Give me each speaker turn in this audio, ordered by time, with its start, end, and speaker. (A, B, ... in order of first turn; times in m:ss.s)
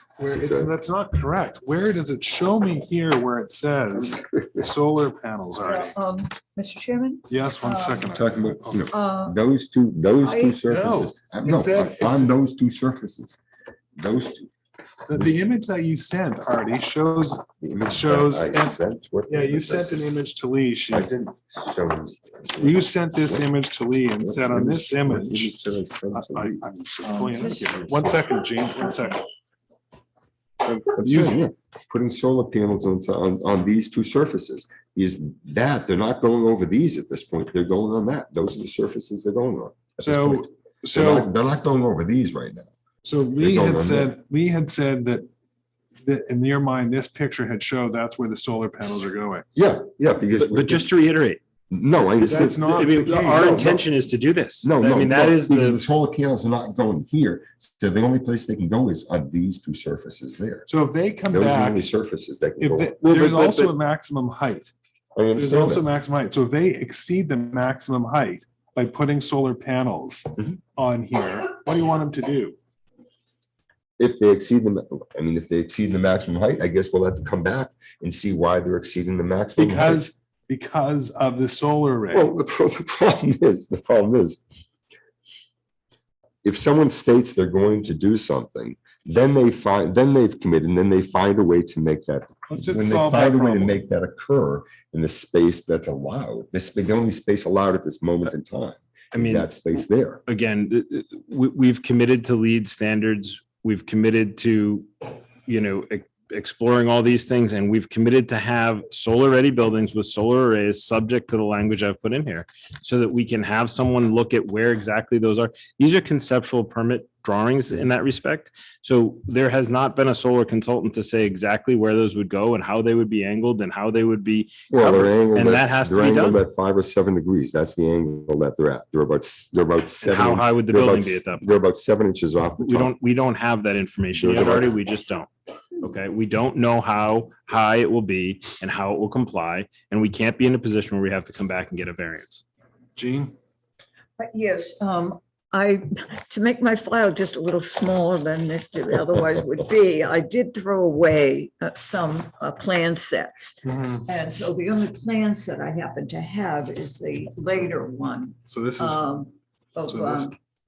0:00.2-0:05.9 A
0:00.4-0:00.7 B
0:03.9-0:04.7 B
0:05.6-0:08.1 C
0:07.3-0:08.9 A
0:08.1-0:13.4 B
0:08.9-0:09.4 C
0:10.2-0:10.6 C
0:10.7-0:12.3 A
0:14.0-0:14.5 B
0:15.1-0:21.1 A
0:17.6-0:20.0 B
0:20.9-0:23.4 B
0:22.6-0:29.2 A
0:24.2-0:26.6 B
0:27.0-0:28.7 C
0:30.6-0:42.7 B
0:31.0-0:31.4 A
0:40.0-0:41.3 A
0:43.0-0:45.3 A
0:43.4-0:44.1 B
0:46.0-0:49.4 A
0:49.5-0:50.9 B
0:50.3-0:51.4 D
0:51.7-0:53.8 B
0:52.2-0:53.7 A
0:52.6-0:55.8 D
0:54.6-1:00.7 B
1:00.6-1:01.9 A
1:01.3-1:03.0 B
1:02.6-1:04.7 A
1:03.0-1:03.7 D
1:05.2-1:05.9 B
1:05.4-1:12.6 A
1:14.0-1:20.1 B
1:19.6-1:22.3 A
1:22.1-1:24.4 B
1:26.4-1:40.2 B
1:32.5-1:33.8 A
1:39.1-1:39.5 D
1:40.2-2:06.4 D
2:04.7-2:12.9 B
2:10.0-2:11.4 D
2:12.6-2:22.4 D
2:14.2-2:14.7 B
2:23.0-2:23.4 A
2:24.2-2:40.3 C
2:33.6-2:34.1 A
2:38.5-2:39.2 A
2:39.9-2:40.3 A